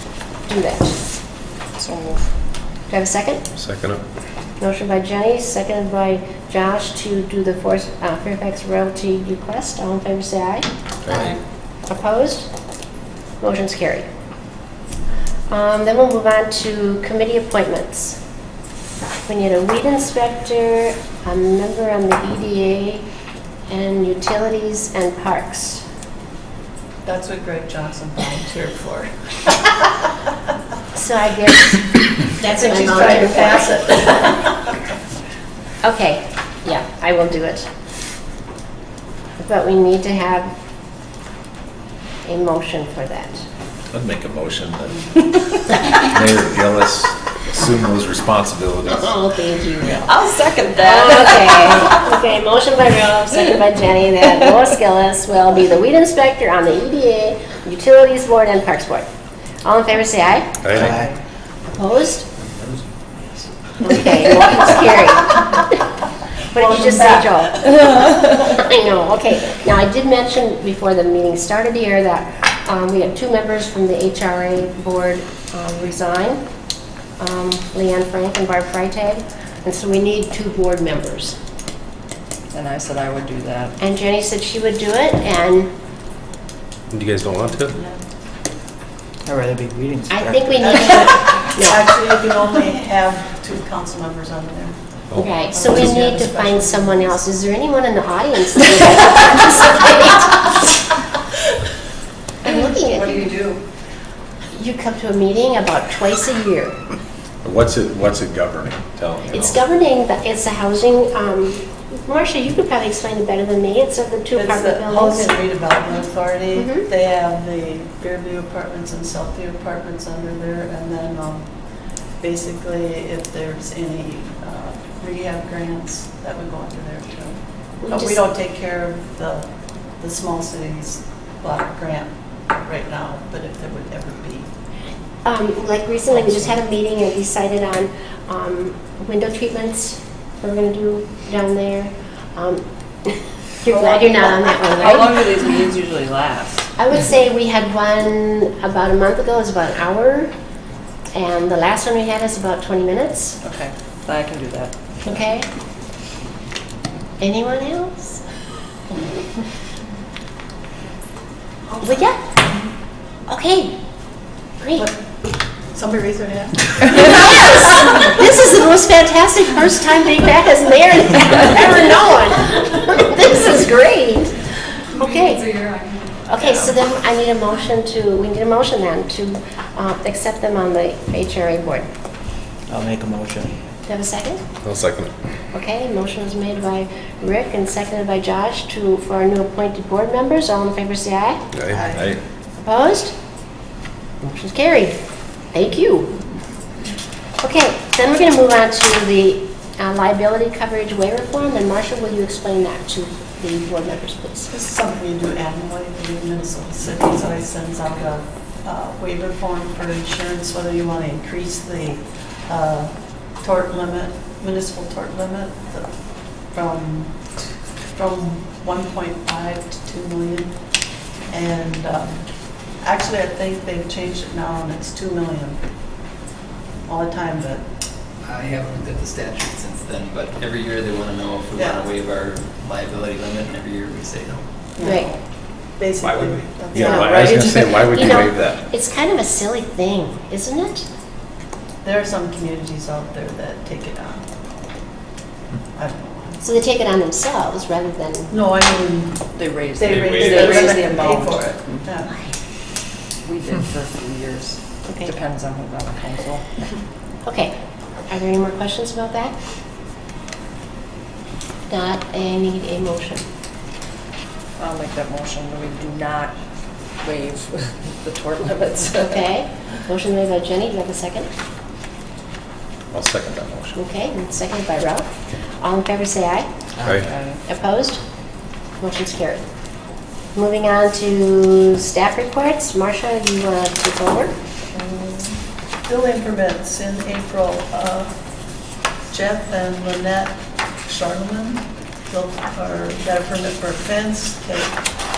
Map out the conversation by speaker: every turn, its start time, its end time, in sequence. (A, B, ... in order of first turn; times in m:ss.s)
0:00.5-0:01.0 A
0:01.8-0:02.3 B
0:02.9-0:03.4 A
0:03.5-0:04.0 C
0:04.6-0:10.7 A
0:11.9-0:12.5 A
0:13.4-0:14.1 A
0:15.5-0:18.2 A
0:19.3-0:23.0 A
0:23.7-0:25.8 A
0:27.0-0:30.0 D
0:30.9-0:34.3 A
0:32.4-0:34.6 D
0:35.8-0:37.7 A
0:39.4-0:40.5 A
0:42.2-0:43.4 A
0:43.9-0:45.3 E
0:45.9-0:49.1 E
0:48.9-0:50.1 A
0:49.9-0:51.9 B
0:50.8-0:59.1 A
0:59.6-1:00.6 A
1:00.6-1:00.9 C
1:01.7-1:02.3 A
1:03.8-1:05.9 A
1:06.5-1:16.4 A
1:17.2-1:21.4 A
1:22.5-1:23.7 B
1:23.8-1:25.7 A
1:26.9-1:27.8 C
1:27.7-1:28.0 D
1:29.3-1:30.4 F
1:30.1-1:31.8 A
1:30.7-1:34.8 D
1:35.1-1:35.4 C
1:35.2-1:40.6 A
1:35.3-1:37.1 D
1:42.4-1:43.4 A
1:44.5-1:46.8 A
1:47.4-1:49.6 E
1:49.3-1:55.3 A
1:54.3-2:01.5 D
1:56.6-1:56.9 A
2:02.2-2:09.5 D
2:07.8-2:08.2 A
2:10.0-2:14.5 D
2:15.2-2:25.3 A
2:24.6-2:26.7 B
2:26.8-2:30.3 A
2:31.1-2:33.4 A
2:33.4-2:35.1 B
2:35.1-2:35.5 A
2:37.2-2:38.2 A
2:41.8-2:42.2 A
2:43.3-2:43.8 A
2:44.6-2:44.9 A
2:45.7-2:47.3 D
2:46.9-2:54.4 A
2:54.9-2:55.6 A
2:56.3-3:01.9 A
3:02.7-3:03.5 F
3:03.9-3:04.4 A
3:04.6-3:05.1 C
3:05.5-3:11.4 A
3:11.8-3:12.2 E
3:12.6-3:13.1 A
3:14.2-3:15.0 A
3:15.5-3:16.2 A
3:17.4-3:24.5 A
3:24.5-3:35.9 D
3:36.5-3:37.4 D
3:37.9-3:40.6 D
3:41.3-3:42.2 D
3:42.8-3:45.6 D
3:46.9-3:47.7 D
3:48.3-3:54.4 G
3:51.6-3:51.9 D
3:54.8-3:55.1 D
3:54.8-3:55.1 A
3:55.8-3:58.2 D
3:56.0-3:56.5 G
3:56.7-3:58.6 E
3:56.8-4:00.9 A
4:01.8-4:04.3 D
4:05.7-4:06.4 D
4:06.4-4:08.3 A
4:08.3-4:12.1 D
4:09.4-4:11.8 B
4:12.1-4:12.3 A
4:13.2-4:16.4 B
4:14.9-4:15.1 A
4:17.2-4:17.5 A
4:18.1-4:19.4 A
4:21.7-4:23.2 A
4:24.6-4:26.3 B
4:27.0-4:29.2 B
4:29.1-4:31.3 A
4:32.9-4:33.8 E
4:33.8-4:35.1 A
4:35.6-4:36.5 A
4:36.8-4:37.4 B
4:37.4-4:38.0 A
4:38.8-4:39.4 A
4:40.4-4:44.3 A
4:44.7-4:48.1 D
4:49.1-4:54.8 D